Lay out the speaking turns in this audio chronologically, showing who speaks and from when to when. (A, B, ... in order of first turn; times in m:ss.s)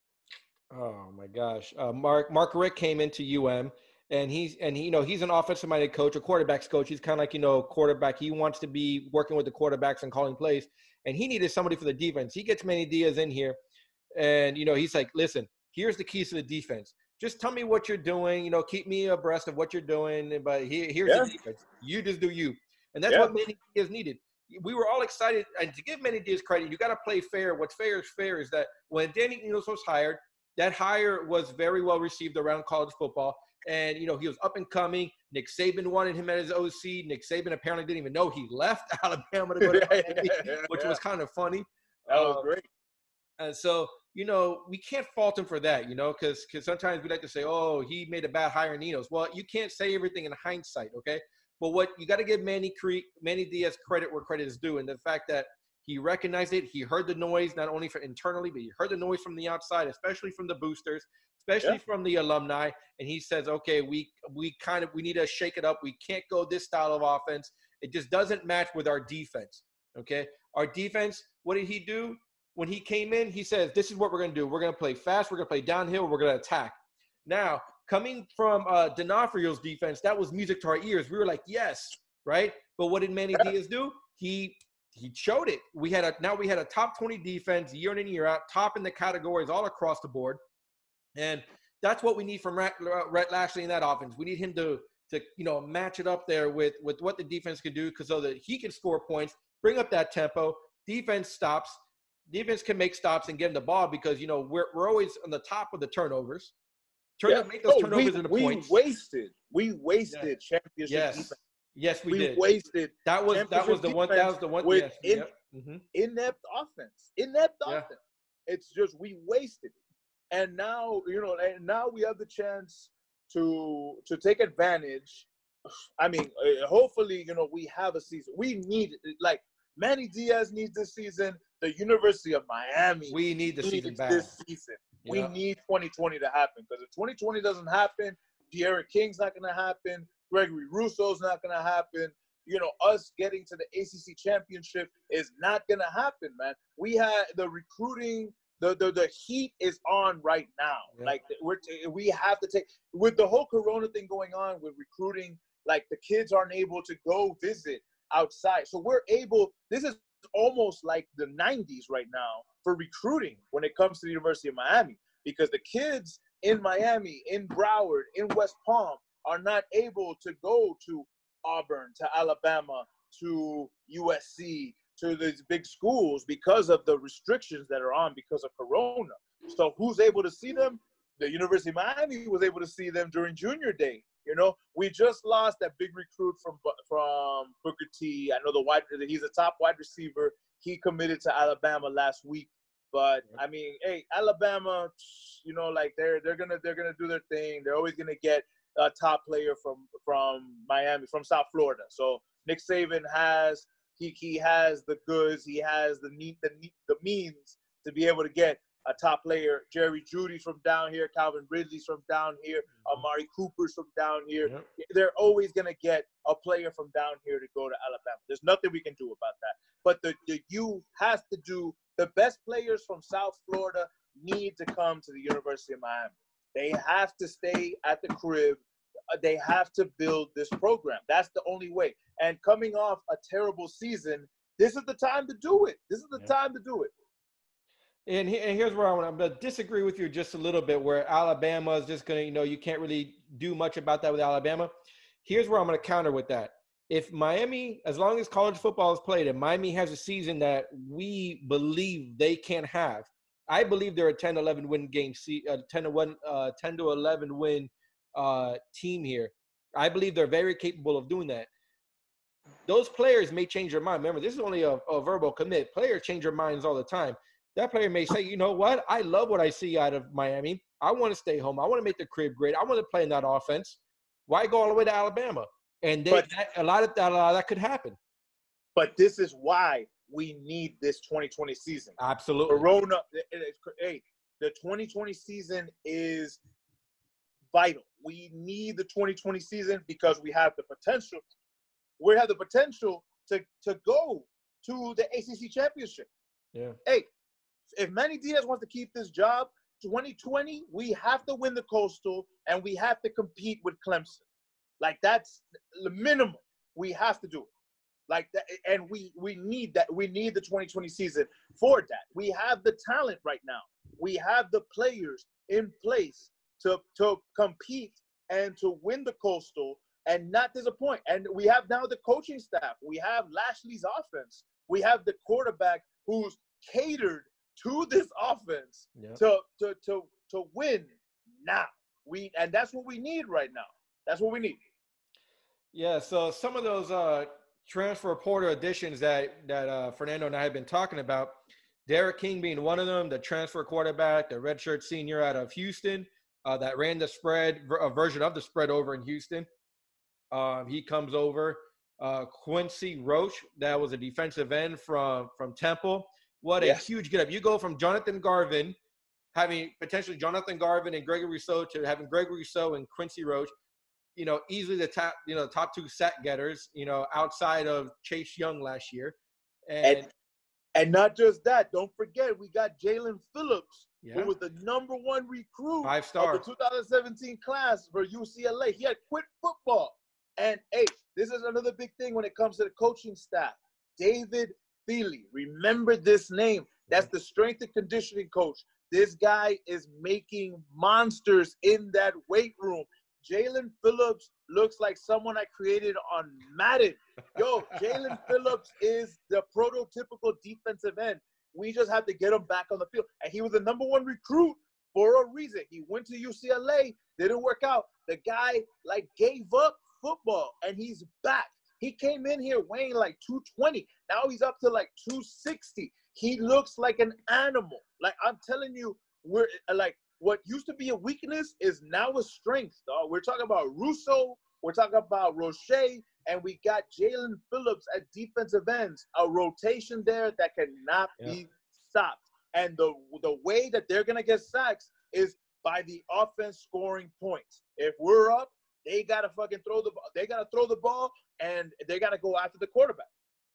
0:00.7-0:13.6 A
0:14.2-0:42.5 A
0:39.6-0:41.0 B
0:42.1-0:42.6 B
0:43.4-1:30.4 A
1:31.2-1:41.8 A
1:42.3-1:46.5 A
1:47.2-1:48.8 A
1:47.2-1:51.4 B
1:50.9-1:52.4 A
1:52.1-1:55.3 B
1:53.0-1:55.8 A
1:55.9-1:59.8 B
2:00.3-2:05.3 B
2:06.0-3:48.6 B
2:13.1-2:14.3 A
2:15.0-2:15.3 A
3:49.1-3:56.9 B
3:58.1-4:04.7 A
4:05.2-4:21.5 A
4:22.7-4:38.0 A
4:38.8-4:46.4 B
4:42.0-4:42.6 A
4:47.5-4:51.2 B
4:52.0-4:56.1 B
4:57.8-5:04.2 B
5:04.8-5:07.5 B
5:08.1-5:34.6 B
5:35.7-5:49.5 A
5:50.3-5:58.8 A
5:56.6-5:56.9 B
5:59.3-6:03.5 A
6:04.2-6:09.1 A
6:09.7-6:10.1 A
6:09.8-6:10.1 B
6:10.8-7:23.1 B
6:14.0-6:14.3 A
6:15.8-6:16.4 A
6:37.9-6:38.3 A